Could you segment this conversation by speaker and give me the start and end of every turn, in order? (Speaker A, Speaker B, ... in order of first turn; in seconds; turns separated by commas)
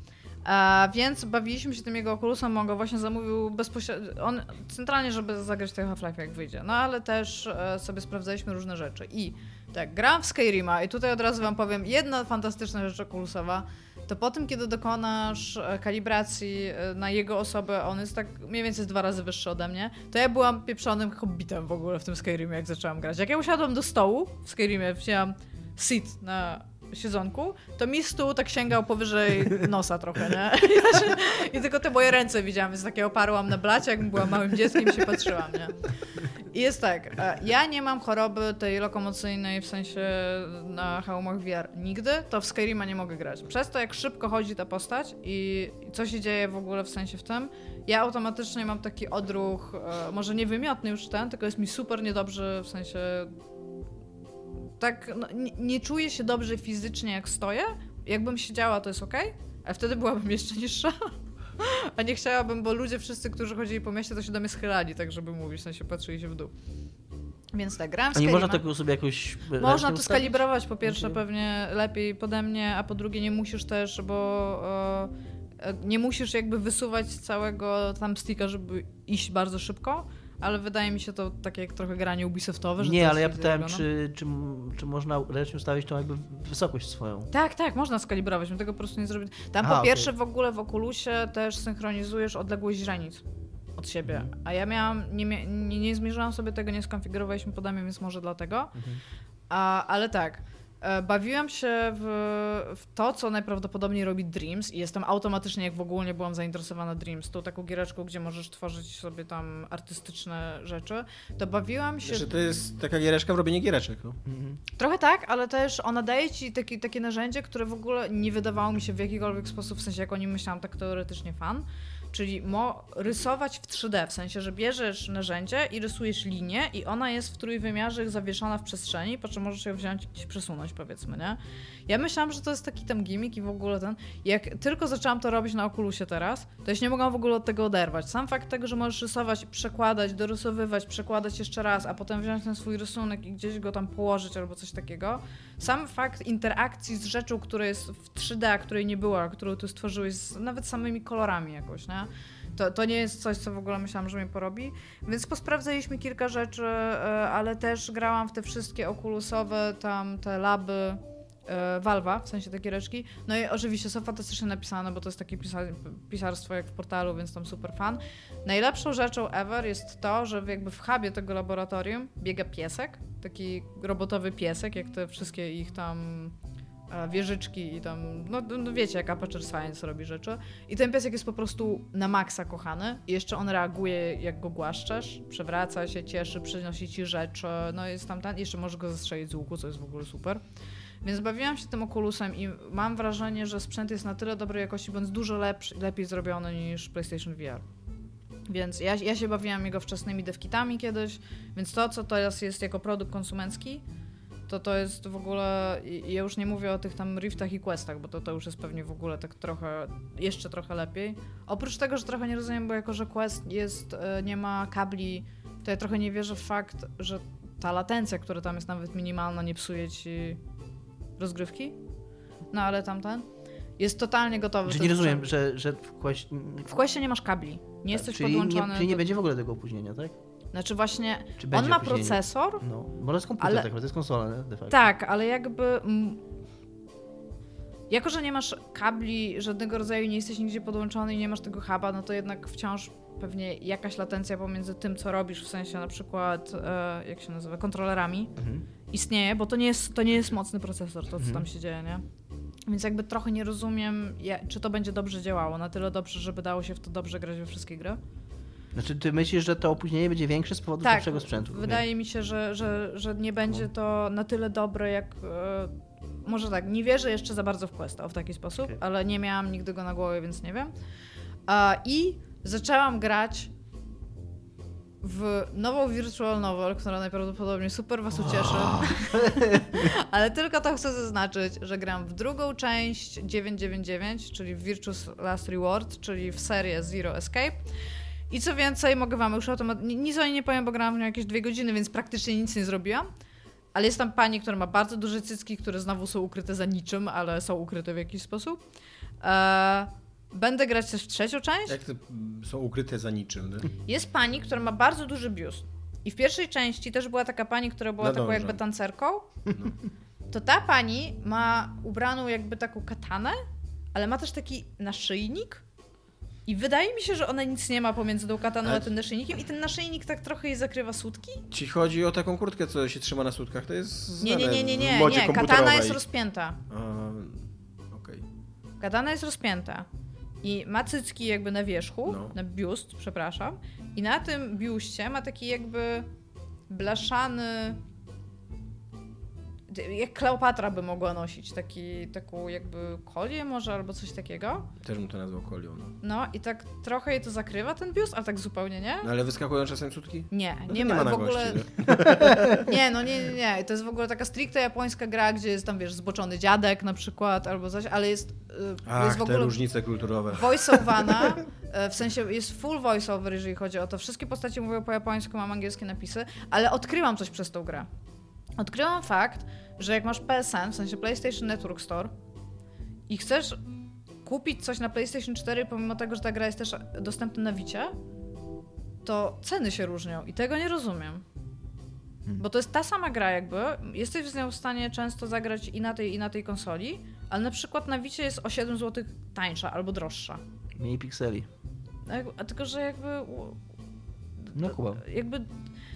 Speaker A: 0.4-35.7, Speaker A: 36.5-53.3, Speaker A: 54.8-66.5, Speaker A: 67.5-68.6, Speaker B: 68.1-70.3, Speaker A: 69.6-83.8, Speaker B: 70.8-71.2, Speaker B: 82.8-87.3, Speaker A: 87.3-93.2, Speaker B: 89.6-90.1, Speaker A: 93.8-98.7, Speaker A: 99.5-112.3, Speaker C: 112.0-114.2, Speaker B: 114.2-114.6, Speaker A: 114.8-176.3, Speaker A: 176.9-190.4, Speaker A: 191.0-197.6, Speaker A: 198.5-203.8, Speaker A: 204.5-220.4, Speaker A: 221.2-221.8, Speaker A: 222.5-223.2, Speaker A: 223.8-225.3, Speaker B: 224.7-226.7, Speaker A: 226.7-229.1, Speaker B: 227.9-230.1, Speaker A: 230.5-232.6, Speaker B: 231.4-234.8, Speaker A: 233.4-233.7, Speaker A: 234.7-236.2, Speaker A: 237.9-248.3, Speaker B: 248.4-248.6, Speaker A: 248.9-252.0, Speaker B: 251.2-251.4, Speaker A: 252.7-258.0, Speaker B: 258.7-261.8, Speaker A: 260.8-270.7, Speaker A: 271.5-273.5, Speaker A: 275.0-287.6, Speaker C: 278.2-279.0, Speaker B: 279.1-279.8, Speaker A: 288.3-293.1, Speaker A: 293.7-298.6, Speaker A: 299.2-301.7, Speaker C: 301.7-303.7, Speaker A: 303.9-309.3, Speaker C: 308.0-308.6, Speaker A: 310.3-313.4, Speaker A: 313.9-315.6, Speaker A: 316.5-321.4, Speaker C: 321.5-326.0, Speaker A: 324.2-326.6, Speaker C: 326.7-328.2, Speaker A: 328.8-329.9, Speaker A: 330.4-336.1, Speaker C: 332.1-332.3, Speaker A: 336.7-337.8, Speaker A: 339.7-344.7, Speaker C: 344.8-345.9, Speaker A: 346.0-349.1, Speaker C: 349.0-352.7, Speaker A: 350.3-359.6, Speaker C: 358.9-360.8, Speaker A: 360.3-367.9, Speaker A: 368.6-372.1, Speaker A: 373.1-373.6, Speaker A: 374.2-377.9, Speaker A: 379.0-381.2, Speaker A: 382.4-390.4, Speaker B: 390.8-391.5, Speaker A: 392.1-393.6, Speaker B: 394.5-395.0, Speaker A: 394.6-395.5